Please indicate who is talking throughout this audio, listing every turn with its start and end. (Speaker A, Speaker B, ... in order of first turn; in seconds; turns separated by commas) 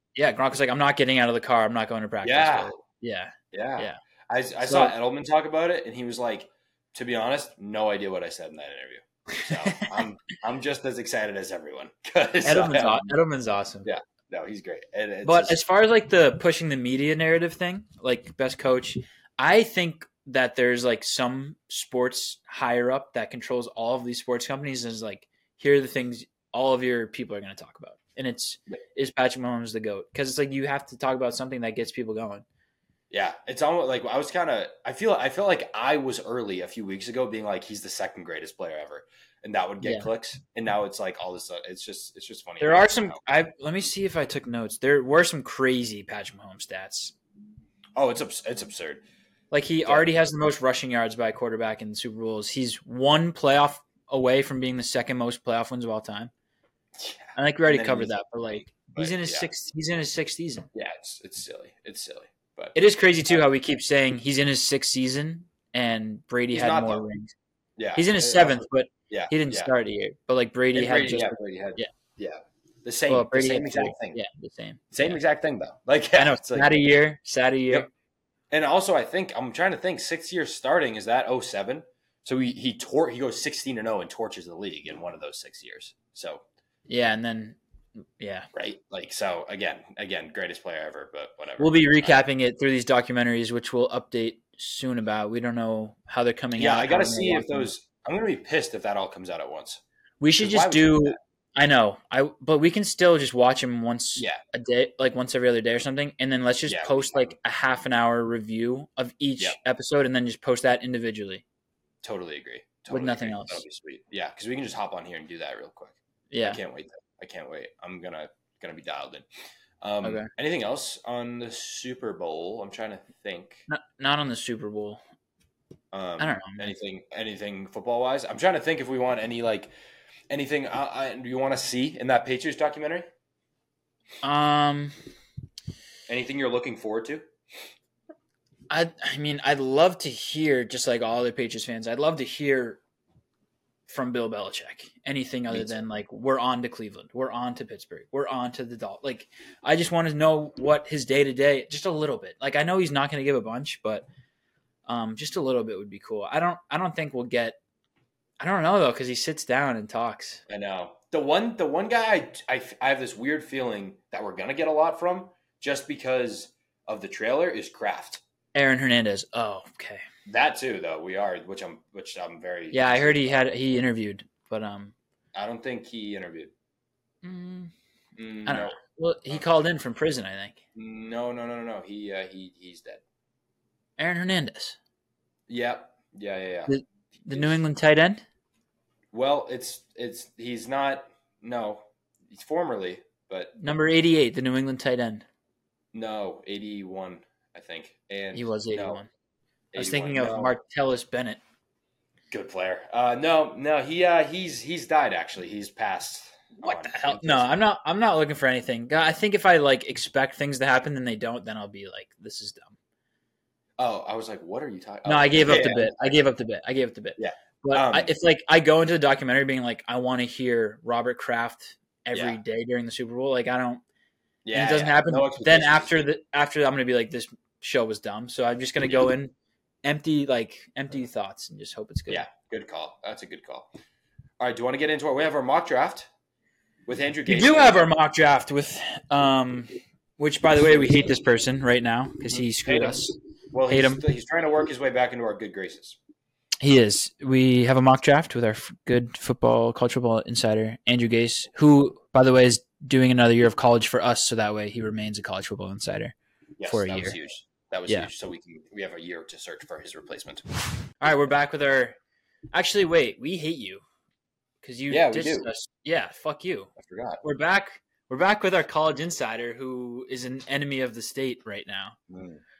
Speaker A: 0.1-4.0, Speaker B: 2.2-2.8, Speaker B: 3.5-13.1, Speaker A: 4.6-4.9, Speaker A: 9.3-10.0, Speaker A: 12.4-13.9, Speaker B: 13.8-15.6, Speaker A: 15.2-32.4, Speaker B: 33.1-43.2, Speaker A: 39.8-40.1, Speaker A: 42.6-47.1, Speaker B: 48.0-49.0, Speaker A: 49.5-56.3, Speaker B: 57.0-59.5, Speaker A: 57.4-60.7, Speaker B: 60.7-63.5, Speaker A: 62.7-67.3, Speaker B: 66.5-67.0, Speaker B: 67.8-69.7, Speaker A: 68.0-71.9, Speaker B: 70.7-74.2, Speaker A: 73.1-75.2, Speaker B: 74.9-76.8, Speaker A: 76.2-77.9, Speaker B: 78.5-86.4, Speaker A: 86.9-87.6, Speaker A: 88.2-88.5, Speaker B: 88.5-92.2, Speaker A: 91.6-97.7, Speaker B: 96.5-99.8, Speaker A: 100.2-111.4, Speaker B: 100.4-101.2, Speaker B: 106.7-107.3, Speaker B: 112.0-119.2, Speaker A: 112.9-113.6, Speaker A: 116.3-116.6, Speaker B: 119.8-123.7, Speaker A: 120.0-120.3, Speaker A: 123.7-125.0, Speaker B: 125.9-129.7, Speaker A: 126.2-126.7, Speaker B: 130.3-133.1, Speaker A: 134.2-134.9, Speaker B: 136.1-137.2, Speaker A: 138.7-142.8, Speaker A: 143.9-154.1, Speaker B: 145.5-145.8, Speaker A: 154.9-157.6, Speaker A: 158.4-160.4, Speaker B: 160.5-168.2, Speaker A: 168.5-170.0, Speaker B: 170.2-173.5, Speaker A: 172.7-174.9, Speaker B: 175.3-176.5, Speaker A: 177.2-177.7, Speaker B: 178.2-178.8, Speaker A: 178.4-180.6, Speaker B: 180.7-183.0, Speaker A: 184.0-184.8, Speaker B: 185.5-186.7, Speaker A: 186.7-188.2, Speaker B: 187.3-187.6, Speaker B: 189.1-193.6, Speaker A: 193.6-195.2, Speaker B: 195.9-199.0, Speaker A: 198.3-199.1, Speaker B: 199.7-200.5, Speaker A: 199.8-201.4, Speaker B: 202.3-207.6, Speaker A: 206.6-212.8, Speaker B: 213.8-216.2, Speaker A: 215.1-223.8, Speaker B: 217.2-218.1, Speaker B: 222.1-222.4, Speaker B: 224.4-226.1, Speaker A: 224.5-229.3, Speaker A: 229.8-232.3, Speaker B: 232.1-233.7, Speaker B: 234.4-236.1, Speaker B: 236.9-237.9, Speaker A: 237.3-243.1, Speaker B: 242.3-246.0, Speaker A: 243.7-244.0, Speaker A: 246.6-256.1, Speaker B: 256.6-260.4, Speaker A: 256.7-257.1, Speaker A: 261.0-261.9, Speaker A: 262.5-263.8, Speaker A: 264.6-272.0, Speaker B: 264.9-265.5, Speaker B: 266.8-267.2, Speaker B: 272.1-272.4